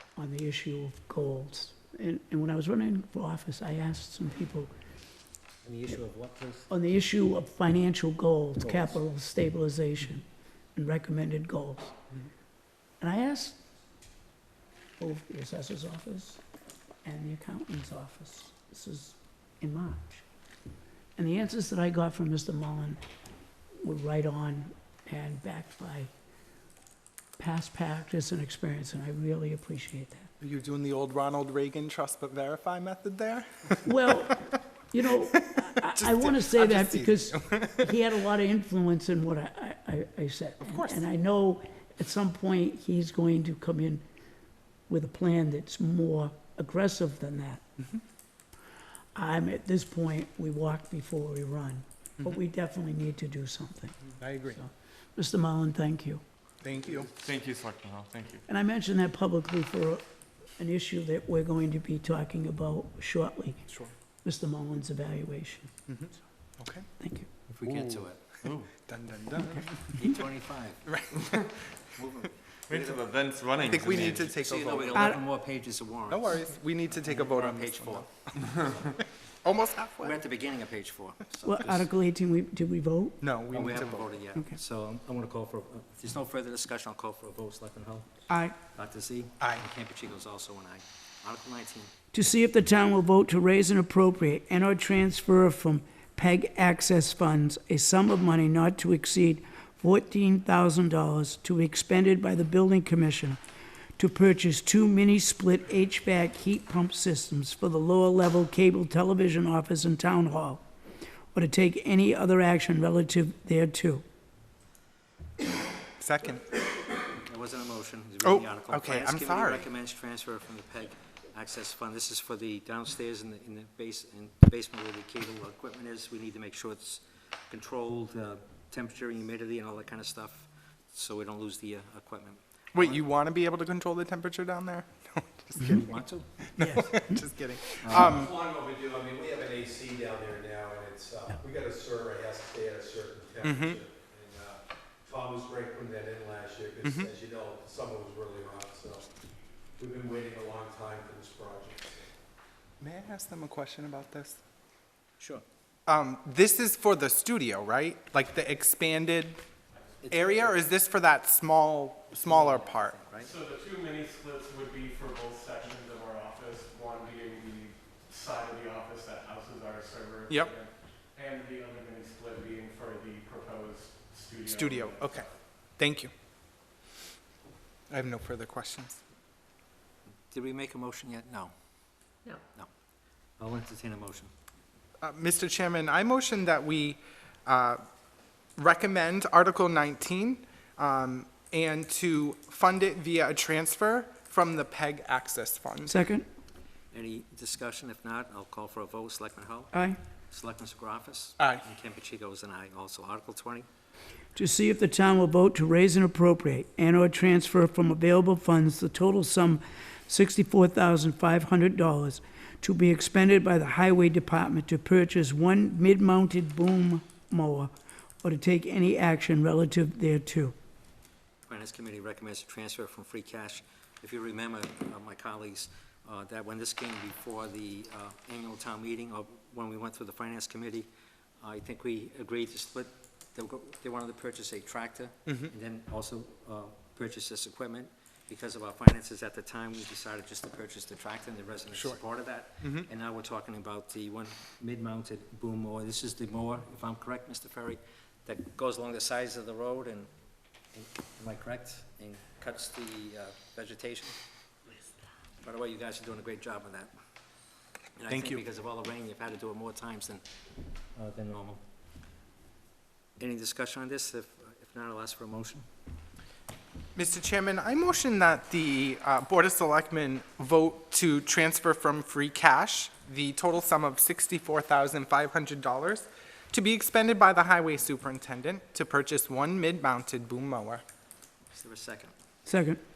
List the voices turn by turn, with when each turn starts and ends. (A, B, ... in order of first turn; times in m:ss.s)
0:00.2-0:04.7 A
0:05.6-0:06.7 B
0:06.7-0:12.0 A
0:08.6-0:09.0 B
0:13.0-0:13.6 A
0:15.0-0:16.4 A
0:17.0-0:20.2 A
0:21.2-0:23.0 A
0:23.8-0:26.1 A
0:27.4-0:30.3 A
0:30.4-0:33.8 C
0:33.8-0:44.0 A
0:35.8-0:38.0 C
0:40.6-0:41.0 C
0:44.9-0:47.6 A
0:49.1-0:56.2 A
0:54.2-0:54.6 C
0:56.6-0:57.1 C
0:57.2-0:58.4 D
0:58.5-1:00.0 A
1:00.6-1:03.6 A
1:03.7-1:03.9 C
1:04.2-1:05.7 A
1:05.9-1:06.8 C
1:07.0-1:07.3 A
1:07.5-1:08.5 B
1:07.7-1:08.7 D
1:08.8-1:09.8 C
1:09.9-1:11.0 B
1:10.8-1:11.6 C
1:11.9-1:18.8 B
1:12.7-1:14.2 D
1:13.6-1:15.1 C
1:14.9-1:15.2 A
1:16.1-1:20.2 C
1:20.0-1:21.9 B
1:21.4-1:23.2 A
1:23.2-1:24.1 C
1:23.5-1:28.1 B
1:28.3-1:28.6 A
1:28.7-1:31.9 B
1:32.1-1:43.4 A
1:44.0-1:50.6 A
1:51.3-1:54.0 A
1:56.0-1:56.5 C
1:57.2-2:13.0 B
1:58.2-1:59.6 C
2:12.7-2:18.3 C
2:15.6-2:16.3 B
2:16.6-2:17.2 A
2:17.8-2:18.2 B
2:17.9-2:29.1 E
2:23.4-2:23.8 C
2:26.8-2:27.1 C
2:29.8-2:32.0 E
2:32.8-2:34.4 C
2:35.8-2:39.4 C
2:40.0-2:40.6 B
2:40.1-2:43.0 C
2:42.1-2:43.3 B
2:43.2-2:55.3 F
2:54.4-2:55.3 C
2:55.8-2:56.1 C
2:57.9-2:59.0 C
3:00.3-3:01.5 B
3:03.4-3:04.3 B
3:05.0-3:07.8 C
3:08.6-3:15.9 C
3:15.8-3:16.2 A
3:16.9-3:19.7 B
3:19.7-3:20.0 A
3:20.3-3:23.7 B
3:21.4-3:21.6 C
3:24.3-3:40.5 A
3:41.5-3:50.9 B
3:51.4-4:10.1 B
3:55.3-3:55.5 C
4:01.7-4:02.0 C
4:02.6-4:02.9 C
4:10.7-4:14.2 B
4:15.4-4:16.9 B
4:18.0-4:20.2 B
4:18.1-4:18.4 C
4:21.0-4:21.6 B
4:23.2-4:25.6 B
4:26.9-4:40.8 C
4:41.5-4:42.1 B
4:42.4-4:42.8 A